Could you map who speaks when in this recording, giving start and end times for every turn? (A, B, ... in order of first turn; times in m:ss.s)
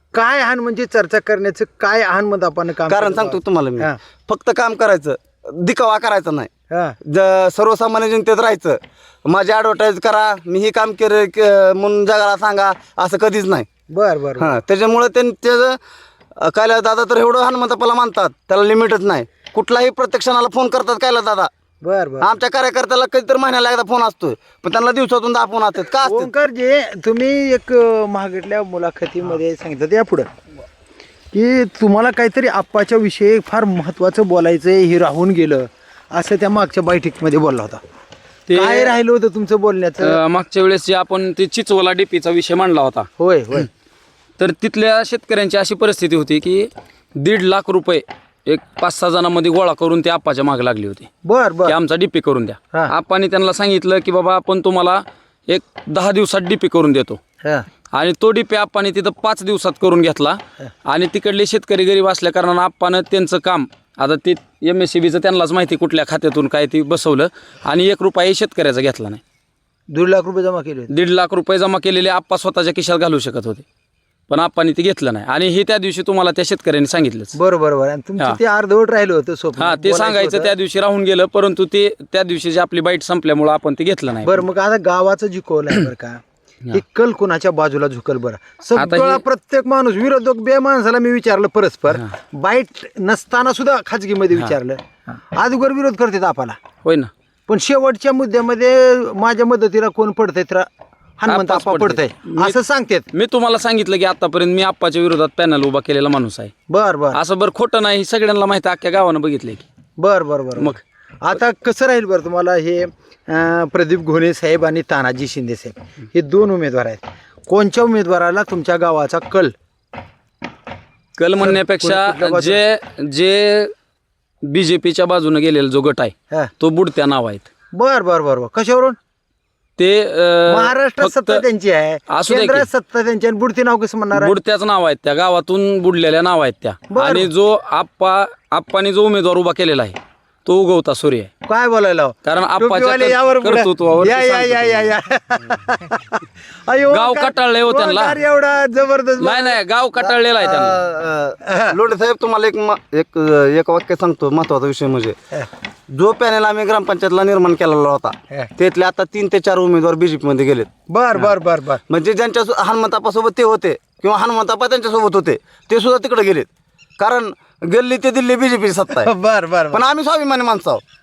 0:00.1-0:04.0 A
0:02.9-0:06.5 B
0:06.7-0:07.0 A
0:07.0-0:13.7 B
0:13.9-0:14.6 A
0:14.4-0:15.8 B
0:16.4-0:21.5 B
0:21.8-0:22.4 A
0:22.2-0:26.3 B
0:26.0-0:30.3 A
0:31.3-0:37.8 A
0:38.5-0:39.0 C
0:38.5-0:40.2 A
0:40.0-0:43.1 C
0:43.2-0:43.7 A
0:44.4-0:51.1 C
0:51.2-0:51.8 A
0:51.7-0:57.2 C
0:57.9-1:09.2 C
1:09.9-1:10.9 A
1:10.9-1:13.6 C
1:14.3-1:17.3 C
1:17.3-1:20.5 A
1:19.6-1:24.4 C
1:24.2-1:34.8 A
1:28.8-1:29.2 C
1:35.3-1:36.6 A
1:36.8-1:37.1 C
1:37.5-1:40.7 A
1:41.2-1:43.1 A
1:41.3-1:42.6 C
1:43.1-1:46.5 C
1:46.7-1:47.2 A
1:47.1-1:49.6 C
1:50.0-1:59.5 A
2:01.2-2:03.7 C
2:01.4-2:02.6 A
2:04.4-2:07.5 C
2:07.7-2:09.0 A
2:09.8-2:11.4 C
2:10.5-2:14.4 A
2:12.1-2:12.7 C
2:14.1-2:21.3 C
2:16.9-2:17.3 A
2:21.5-2:30.1 A
2:22.2-2:24.9 C
2:26.9-2:28.2 C
2:29.2-2:30.8 C
2:30.4-2:35.2 B
2:31.4-2:31.8 A
2:35.9-2:40.7 B
2:40.9-2:41.8 A
2:41.9-2:46.5 B
2:47.0-2:49.1 B
2:49.0-2:49.8 A
2:49.7-2:50.8 B